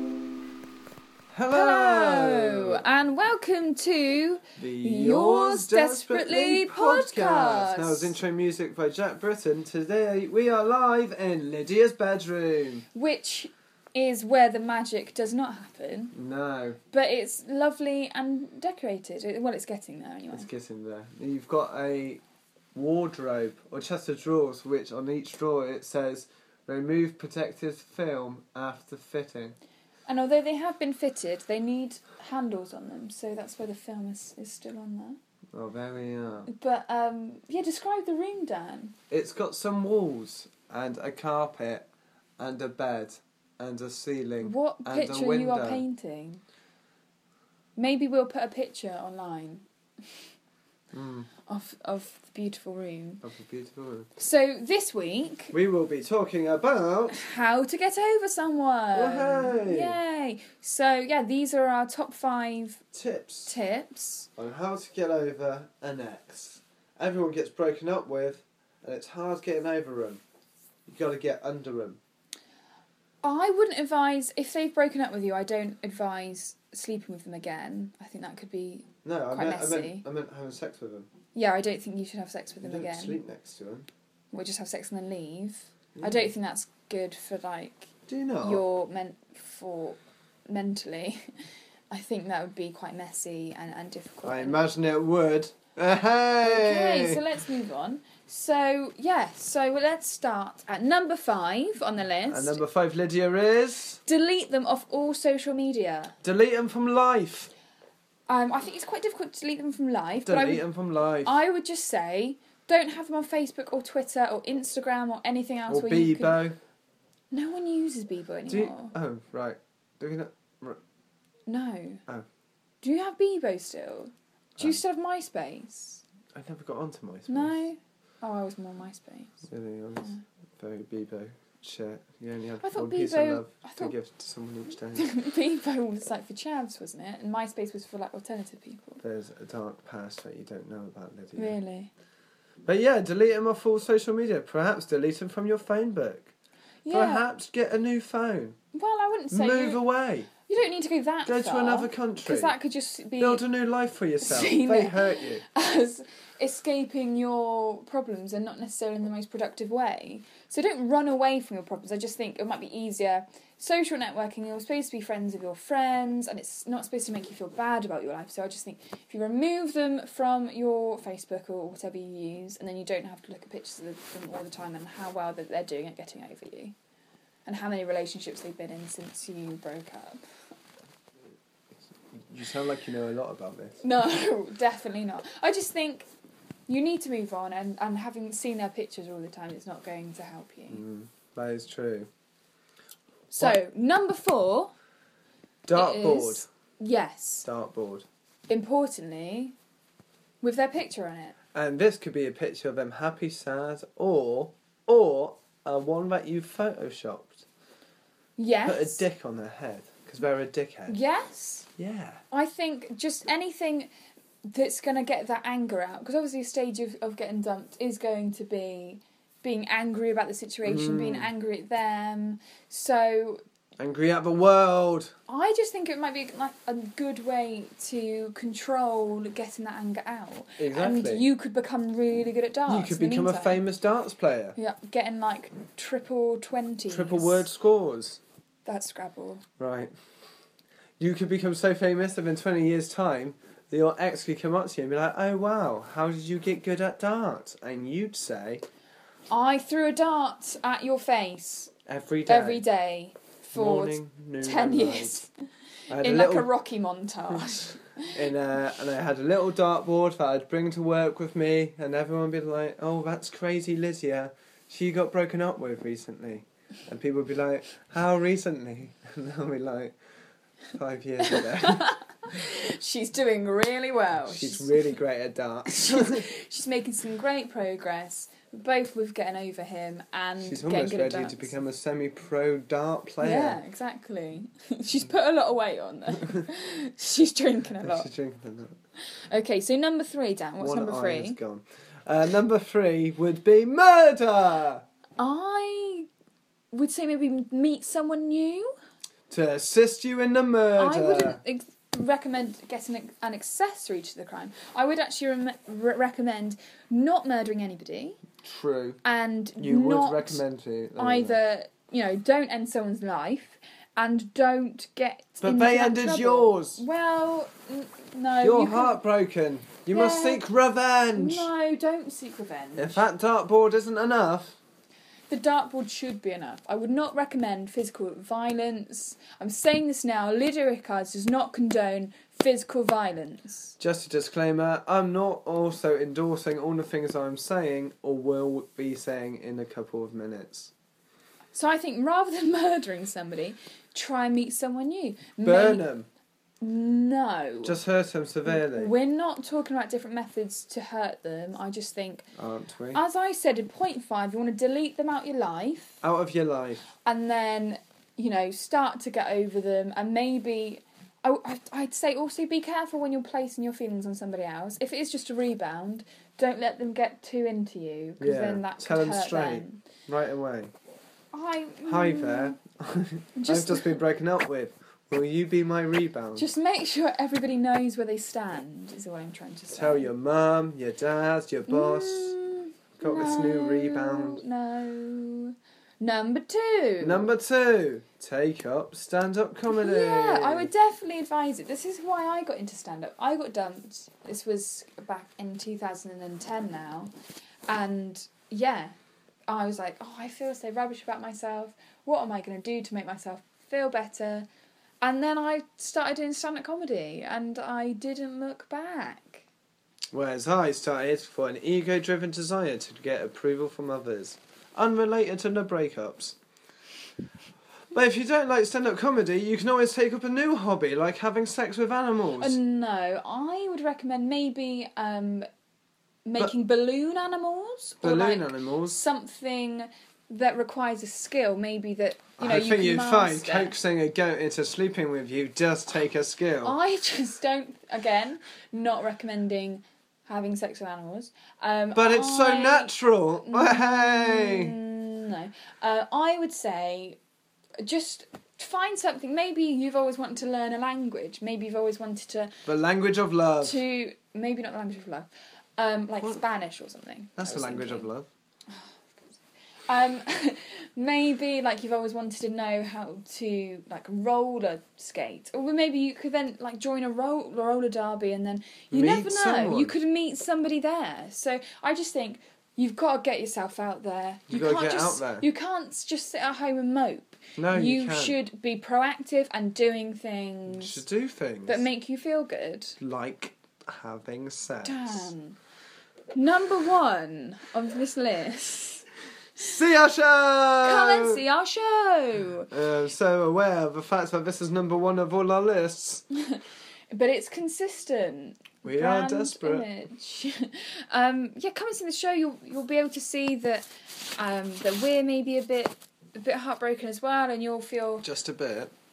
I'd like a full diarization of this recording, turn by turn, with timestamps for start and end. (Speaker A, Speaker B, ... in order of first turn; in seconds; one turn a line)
Speaker A: 1.3-2.8
Speaker B: 1.5-8.2
Speaker A: 4.6-12.9
Speaker B: 12.9-16.1
Speaker A: 16.1-16.8
Speaker B: 16.9-20.5
Speaker A: 20.3-22.2
Speaker A: 22.7-29.6
Speaker B: 30.1-35.2
Speaker A: 35.5-36.5
Speaker B: 36.5-39.0
Speaker A: 39.1-41.9
Speaker A: 42.4-45.9
Speaker B: 44.4-46.4
Speaker B: 47.8-49.6
Speaker A: 50.9-51.3
Speaker B: 51.5-53.2
Speaker A: 53.2-54.1
Speaker B: 54.2-55.5
Speaker A: 55.5-57.2
Speaker B: 57.1-62.8
Speaker A: 59.0-60.0
Speaker A: 62.9-63.5
Speaker B: 63.5-64.3
Speaker A: 64.4-70.2
Speaker A: 70.9-72.0
Speaker B: 73.2-80.0
Speaker A: 79.0-81.1
Speaker B: 81.3-83.2
Speaker A: 82.6-83.9
Speaker B: 84.3-87.9
Speaker A: 86.0-86.3
Speaker A: 88.1-88.6
Speaker B: 88.4-91.2
Speaker B: 91.9-94.6
Speaker A: 94.2-97.2
Speaker B: 96.4-102.6
Speaker A: 102.3-104.0
Speaker B: 104.1-106.2
Speaker A: 106.2-107.5
Speaker B: 108.3-110.7
Speaker A: 110.3-111.4
Speaker B: 111.2-116.4
Speaker A: 115.7-116.6
Speaker B: 117.3-118.9
Speaker A: 118.5-120.8
Speaker B: 121.5-122.0
Speaker B: 122.8-126.0
Speaker A: 126.3-127.6
Speaker B: 127.3-129.5
Speaker A: 129.4-135.1
Speaker B: 132.6-133.9
Speaker B: 134.9-139.0
Speaker A: 139.0-141.6
Speaker B: 141.4-141.9
Speaker A: 142.7-146.3
Speaker B: 146.8-147.2
Speaker A: 146.9-148.6
Speaker B: 148.7-149.8
Speaker A: 149.3-150.3
Speaker B: 150.5-153.4
Speaker A: 151.2-152.6
Speaker A: 153.2-155.4
Speaker B: 154.2-176.8
Speaker B: 177.5-180.2
Speaker A: 182.1-183.8
Speaker B: 183.8-186.1
Speaker B: 186.7-190.8
Speaker A: 190.7-192.1
Speaker B: 193.3-194.7
Speaker A: 195.7-196.5
Speaker B: 195.7-197.5
Speaker A: 197.4-198.1
Speaker B: 198.5-199.6
Speaker B: 200.4-201.4
Speaker A: 201.5-207.5
Speaker B: 208.4-209.0
Speaker A: 208.7-211.0
Speaker B: 210.9-211.7
Speaker A: 211.8-212.2
Speaker B: 212.3-213.9
Speaker B: 214.5-223.4
Speaker A: 220.7-221.3
Speaker A: 223.8-225.1
Speaker B: 225.3-233.6
Speaker A: 230.6-231.3
Speaker A: 232.7-234.6
Speaker B: 234.6-237.5
Speaker A: 236.9-238.2
Speaker B: 238.7-239.4
Speaker A: 239.6-239.9
Speaker A: 241.0-248.6
Speaker B: 249.3-251.7
Speaker A: 251.9-252.7
Speaker B: 252.3-255.3
Speaker A: 253.6-255.2
Speaker A: 255.9-256.5
Speaker B: 255.9-258.2
Speaker A: 258.1-269.9
Speaker A: 270.8-271.9
Speaker B: 271.2-274.9
Speaker A: 274.2-276.3
Speaker B: 275.7-281.6
Speaker A: 280.4-283.6
Speaker B: 283.2-288.1
Speaker A: 287.8-288.8
Speaker B: 289.3-291.4
Speaker A: 290.6-294.8
Speaker B: 295.2-296.1
Speaker B: 296.7-298.7
Speaker A: 299.3-301.4
Speaker B: 300.8-308.2
Speaker A: 308.4-309.0
Speaker B: 309.0-310.4
Speaker A: 309.6-311.4
Speaker B: 311.0-319.0
Speaker A: 315.4-316.8
Speaker A: 318.4-321.5
Speaker B: 319.9-320.4
Speaker B: 321.2-323.1
Speaker A: 322.8-324.6
Speaker B: 325.3-333.8
Speaker A: 333.8-340.7
Speaker B: 341.5-345.9
Speaker A: 345.4-346.1
Speaker B: 346.6-347.8
Speaker A: 347.6-348.9
Speaker B: 348.5-352.3
Speaker A: 352.4-353.0
Speaker B: 352.9-356.0
Speaker A: 356.0-356.9
Speaker B: 357.0-369.8
Speaker A: 368.2-370.7
Speaker B: 371.3-372.6
Speaker A: 371.9-376.5
Speaker B: 373.4-374.0
Speaker B: 376.4-380.1
Speaker A: 379.7-382.4
Speaker B: 381.7-387.3
Speaker A: 383.0-384.4
Speaker A: 387.0-390.7
Speaker B: 389.7-397.1
Speaker B: 397.7-398.9
Speaker B: 399.5-404.5
Speaker B: 405.0-409.4
Speaker A: 410.1-416.4
Speaker A: 417.9-422.6
Speaker B: 422.4-425.5
Speaker B: 426.3-433.8
Speaker A: 428.0-429.0
Speaker A: 432.4-436.8
Speaker B: 436.6-442.9
Speaker A: 441.9-444.8
Speaker B: 443.5-447.2
Speaker B: 447.8-452.5
Speaker A: 452.7-453.8
Speaker B: 453.6-458.1
Speaker A: 457.4-458.3
Speaker B: 459.9-481.0
Speaker A: 468.9-469.9
Speaker A: 474.5-475.5
Speaker A: 477.6-478.4
Speaker A: 480.7-481.9
Speaker B: 481.7-483.0
Speaker A: 483.0-485.3
Speaker B: 484.8-485.6
Speaker B: 486.3-489.1
Speaker A: 489.6-491.4
Speaker B: 490.8-492.7
Speaker A: 492.7-496.2
Speaker B: 496.3-496.6
Speaker B: 497.1-508.3
Speaker A: 498.8-499.9
Speaker A: 508.2-508.9